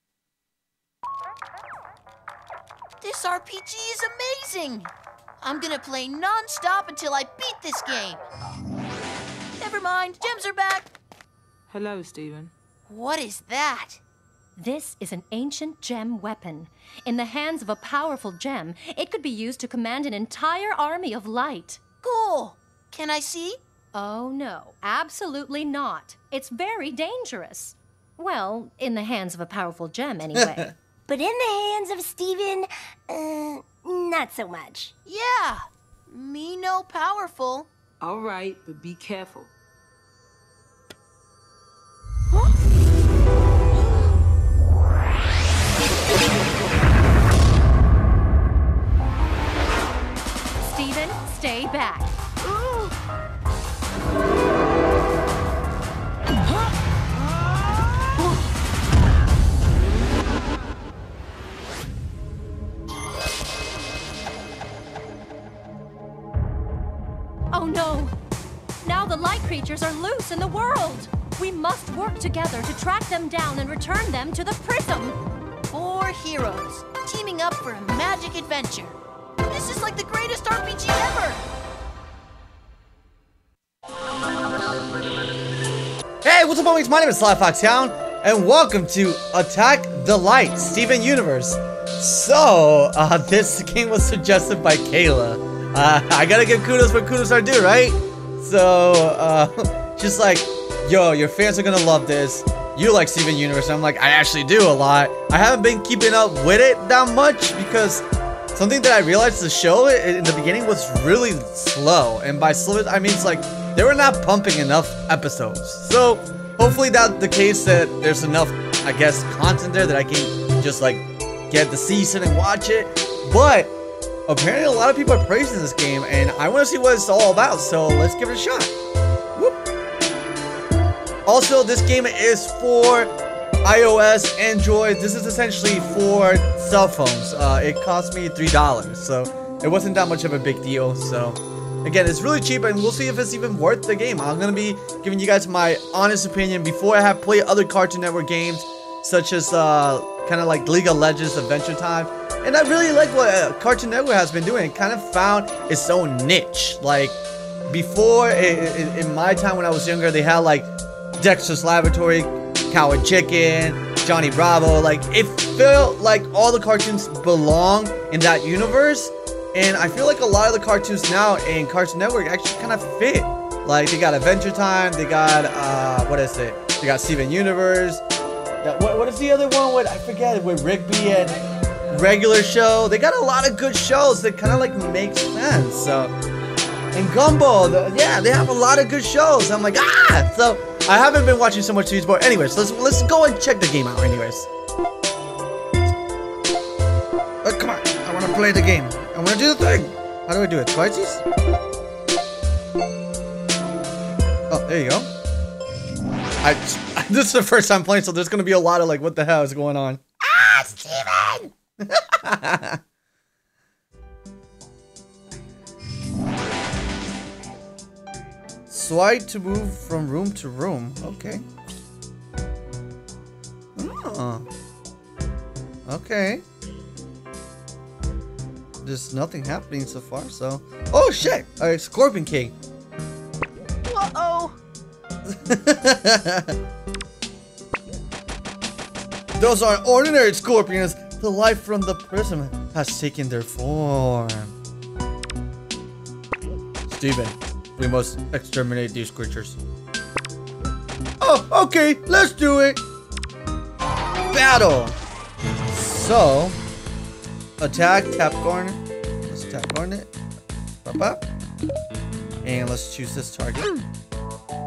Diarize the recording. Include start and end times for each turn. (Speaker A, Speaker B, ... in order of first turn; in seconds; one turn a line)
Speaker A: 3.0-4.9
Speaker A: 5.4-8.2
Speaker A: 9.6-10.9
Speaker B: 11.7-12.5
Speaker A: 12.9-14.0
Speaker C: 14.6-21.8
Speaker A: 22.0-23.6
Speaker C: 23.9-30.7
Speaker D: 30.3-30.6
Speaker E: 31.1-34.9
Speaker A: 35.0-37.7
Speaker B: 38.0-39.5
Speaker C: 50.6-52.1
Speaker C: 67.5-68.1
Speaker C: 68.8-75.2
Speaker A: 75.7-81.4
Speaker D: 86.2-123.8
Speaker D: 124.3-128.7
Speaker D: 131.2-133.1
Speaker D: 133.6-157.2
Speaker D: 157.7-178.0
Speaker D: 178.6-186.1
Speaker D: 186.9-194.5
Speaker D: 197.4-201.2
Speaker D: 204.5-205.1
Speaker D: 206.4-210.0
Speaker A: 210.4-211.5
Speaker D: 210.7-211.2
Speaker D: 211.8-212.8
Speaker D: 218.7-221.4
Speaker D: 223.8-224.5
Speaker D: 225.9-226.4
Speaker D: 228.8-232.5
Speaker A: 233.9-234.6
Speaker D: 235.2-236.5
Speaker D: 239.4-244.5
Speaker D: 246.9-249.6
Speaker D: 251.2-252.8
Speaker D: 254.3-255.0
Speaker D: 255.7-256.6
Speaker D: 257.6-260.1
Speaker D: 260.8-261.2
Speaker D: 262.4-263.8